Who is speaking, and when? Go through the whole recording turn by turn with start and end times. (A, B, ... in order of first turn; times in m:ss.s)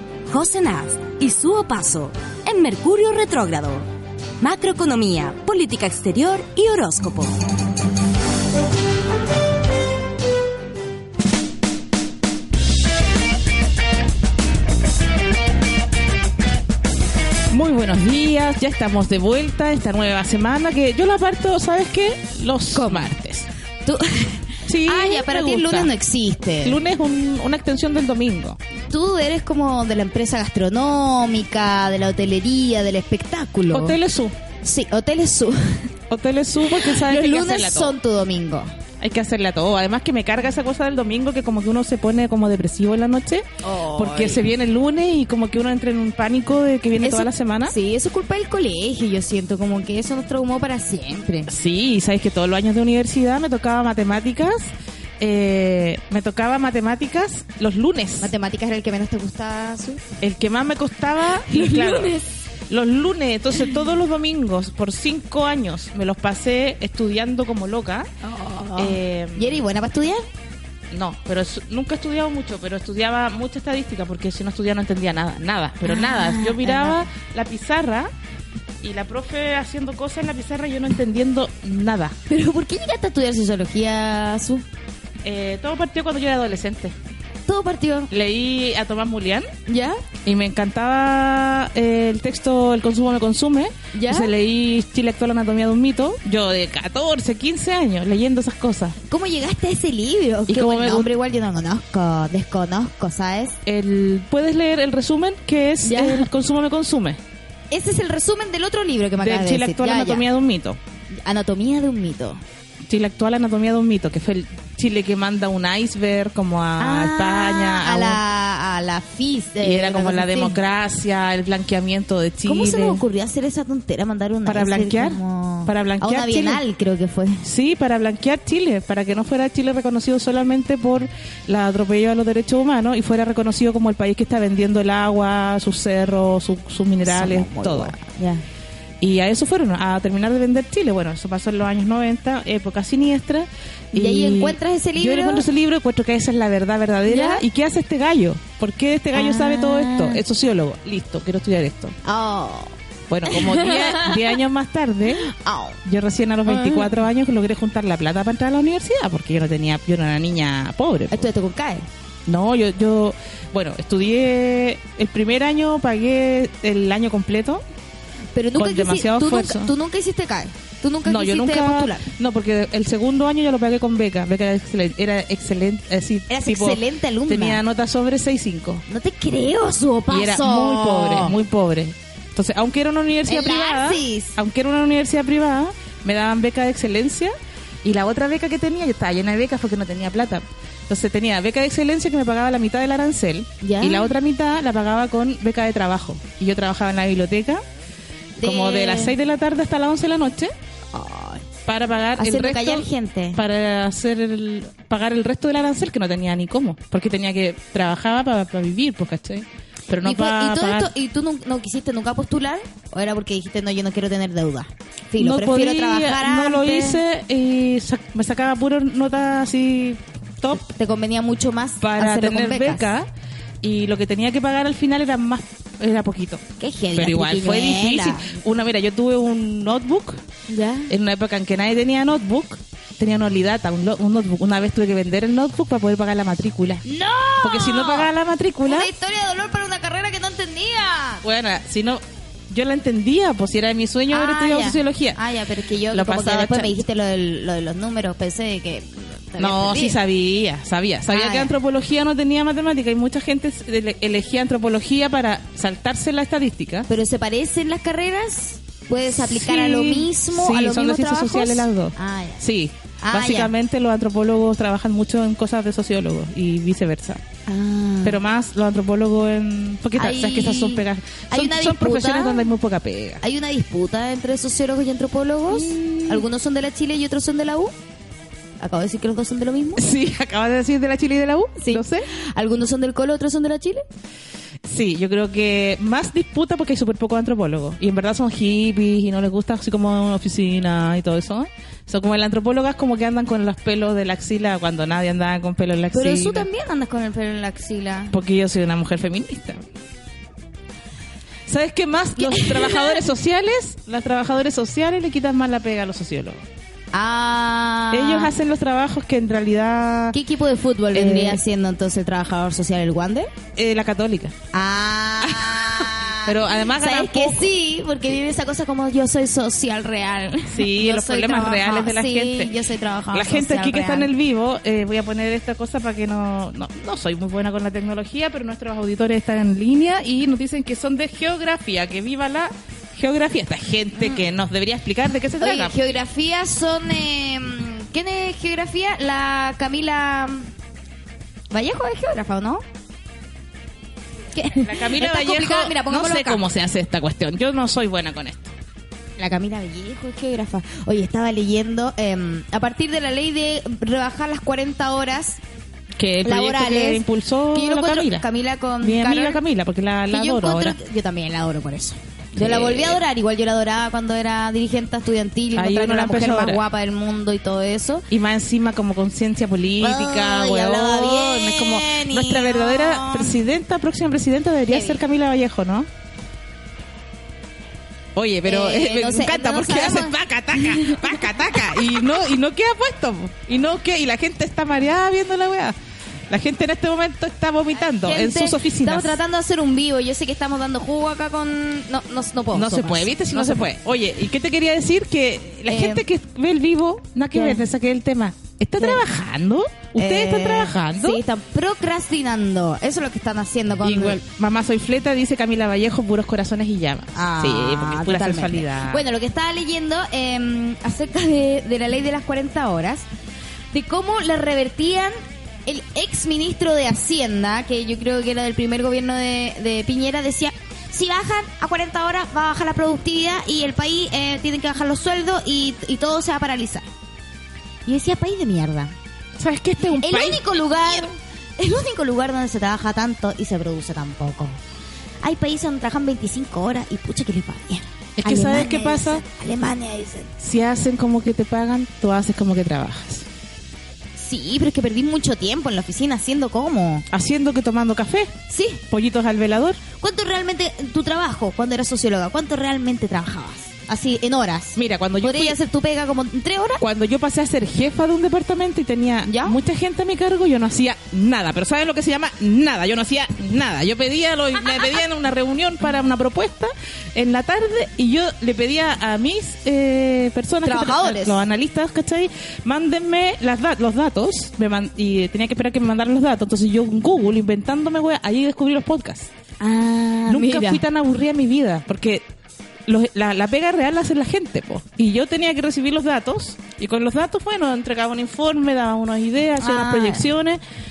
0:00.3-0:03.8 A
0:04.4-0:07.4 A
0:17.5-0:23.5 B
0:22.7-0:23.1 C
0:23.8-0:26.8 C
0:24.7-0:25.9 B
0:26.6-0:28.6 B
0:28.9-0:34.0 C
0:33.7-0:34.4 B
0:34.6-0:35.9 C
0:36.1-0:37.9 B
0:36.7-0:38.7 C
0:39.0-0:47.7 B
0:43.6-0:44.4 C
0:47.0-0:51.5 C
0:51.5-0:58.3 B
0:58.2-1:00.0 C
1:00.2-1:08.1 B
1:01.4-1:02.3 C
1:08.2-1:10.2 C
1:08.8-1:09.6 B
1:10.9-1:18.1 B
1:15.8-1:17.0 C
1:18.8-1:22.2 B
1:22.3-1:24.6 C
1:25.2-1:26.9 B
1:27.5-1:28.1 C
1:28.1-1:29.5 B
1:29.7-1:30.0 C
1:30.2-1:39.0 B
1:33.9-1:34.3 C
1:39.1-1:43.6 C
1:40.5-1:41.1 B
1:43.6-1:47.2 B
1:45.8-1:46.3 C
1:47.7-1:50.2 C
1:49.2-1:50.8 B
1:51.1-1:52.4 C
1:52.9-1:58.2 B
1:56.8-2:00.6 C
1:59.6-2:03.0 B
2:02.4-2:07.4 C
2:04.4-2:06.6 B
2:07.4-2:18.0 B
2:17.0-2:18.4 C
2:19.0-2:31.9 B
2:23.9-2:25.5 C
2:27.1-2:27.4 C
2:29.1-2:30.2 C
2:32.0-2:32.7 C
2:33.1-2:35.3 B
2:33.2-2:34.3 C
2:35.2-2:35.8 C
2:35.8-2:41.3 B
2:36.4-2:37.0 C
2:41.1-2:41.9 C
2:42.2-2:47.6 B
2:48.3-2:52.0 C
2:48.6-2:49.7 B
2:51.0-2:58.8 B
2:56.3-2:57.6 C
2:58.9-3:01.4 C
3:00.1-3:07.3 B
3:03.3-3:04.4 C
3:07.8-3:17.6 B
3:13.6-3:14.1 C
3:18.4-3:19.1 C
3:18.4-3:20.5 B
3:20.9-3:21.5 C
3:21.7-3:30.9 B
3:22.2-3:23.4 C
3:30.0-3:37.0 C
3:35.2-3:40.6 B
3:40.5-3:42.9 C
3:41.8-3:43.1 B
3:43.6-3:46.4 B
3:46.6-3:48.3 C
3:46.9-3:50.2 B
3:50.5-3:50.9 C
3:50.9-3:56.8 B
3:56.8-3:58.1 C
3:57.4-3:58.9 B
3:58.6-4:01.2 C
4:01.2-4:05.2 B
4:04.1-4:10.0 C
4:05.9-4:06.8 B
4:09.4-4:16.9 B
4:11.1-4:11.5 C
4:16.9-4:22.4 C
4:19.2-4:27.2 B
4:23.0-4:23.5 C
4:27.5-4:28.2 C
4:28.0-4:33.2 B
4:30.0-4:32.5 C
4:33.2-4:37.7 C
4:35.5-4:36.3 B
4:38.6-4:39.9 C
4:39.8-4:42.1 B
4:41.6-4:43.8 C
4:44.6-4:56.5 B
4:55.9-4:58.2 C
4:58.1-4:59.7 B
5:01.5-5:06.4 B
5:02.2-5:03.0 C
5:06.9-5:08.3 C
5:07.9-5:10.2 B
5:10.1-5:13.3 C
5:10.9-5:11.4 B
5:13.6-5:14.3 B
5:14.5-5:24.1 C
5:15.2-5:17.5 B
5:20.5-5:22.5 B
5:23.1-5:35.8 B
5:33.9-5:34.2 C
5:35.4-5:40.5 C
5:41.5-5:42.6 C
5:44.3-5:46.4 C
5:44.6-5:48.5 B
5:49.2-5:55.4 C
5:56.0-5:58.3 B
5:56.2-5:59.4 C
5:58.8-6:00.8 B
6:00.1-6:08.0 C
6:02.4-6:03.0 B
6:05.5-6:06.6 B
6:08.1-6:15.9 B
6:09.8-6:13.4 C
6:14.7-6:15.0 C
6:18.1-6:25.7 B
6:18.4-6:21.9 C
6:26.3-6:29.2 B
6:27.9-6:33.7 C
6:32.5-6:41.2 B
6:35.6-6:36.0 C
6:37.3-6:37.6 C
6:40.0-6:44.2 C
6:43.8-6:49.0 B
6:47.1-6:53.1 C
6:53.7-6:55.1 C
6:55.6-7:06.9 C
7:07.8-7:08.9 C
7:09.4-7:11.0 B
7:09.9-7:14.6 C
7:15.2-7:20.3 C
7:18.2-7:19.2 B
7:20.4-7:23.3 B
7:24.2-7:27.1 C
7:27.1-7:28.3 B
7:28.5-7:28.8 C
7:28.9-7:29.8 B
7:30.0-7:36.8 C
7:34.8-7:35.6 B
7:36.8-7:59.3 B
7:39.2-7:39.6 C
7:50.6-7:51.4 C
7:59.6-8:00.8 C
8:00.3-8:02.2 B
8:02.9-8:10.6 B
8:09.6-8:10.3 C